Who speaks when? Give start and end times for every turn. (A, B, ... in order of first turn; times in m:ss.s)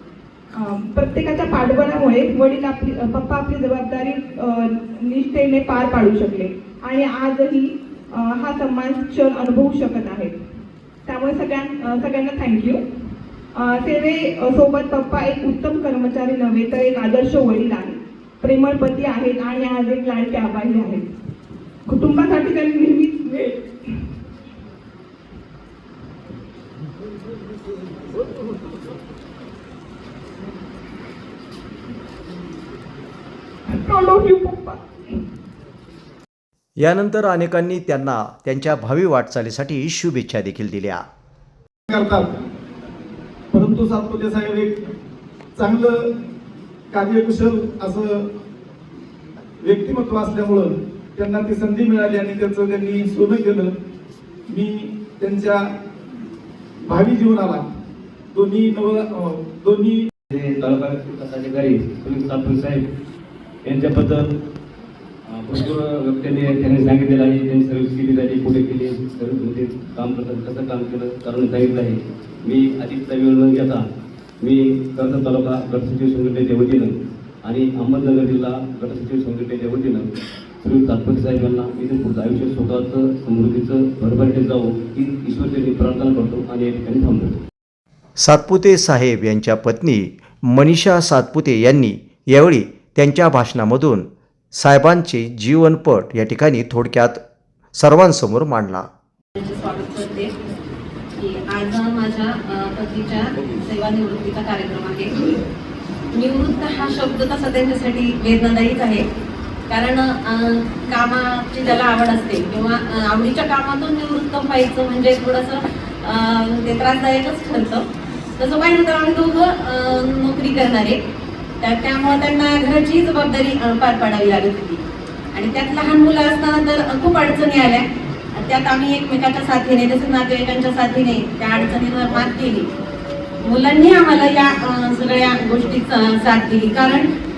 0:00.5-0:10.4 A
0:11.1-0:12.8 A
0:13.6-0:21.1 A
0:21.9-0:23.7 A
0:33.7-0:34.8 A
0:36.8-0:41.0 B
0:41.9-0:42.4 C
0:43.5-0:44.8 C
0:45.6-0:46.1 C
0:46.9-0:48.3 C
0:49.6-0:53.7 C
0:54.5-0:55.7 C
0:56.8-0:57.7 C
0:58.3-1:00.1 C
1:00.3-1:02.9 D
1:03.6-1:04.4 D
1:05.3-1:13.9 D
1:14.4-1:20.1 D
1:20.6-1:27.4 D
1:28.2-1:37.2 B
1:37.8-1:38.9 B
1:39.4-1:40.3 E
1:41.2-1:45.4 E
1:46.1-1:49.0 E
1:49.7-1:57.8 E
1:58.4-2:01.0 E
2:01.6-2:04.8 E
2:05.3-2:07.8 E
2:08.4-2:12.6 E
2:13.4-2:17.1 E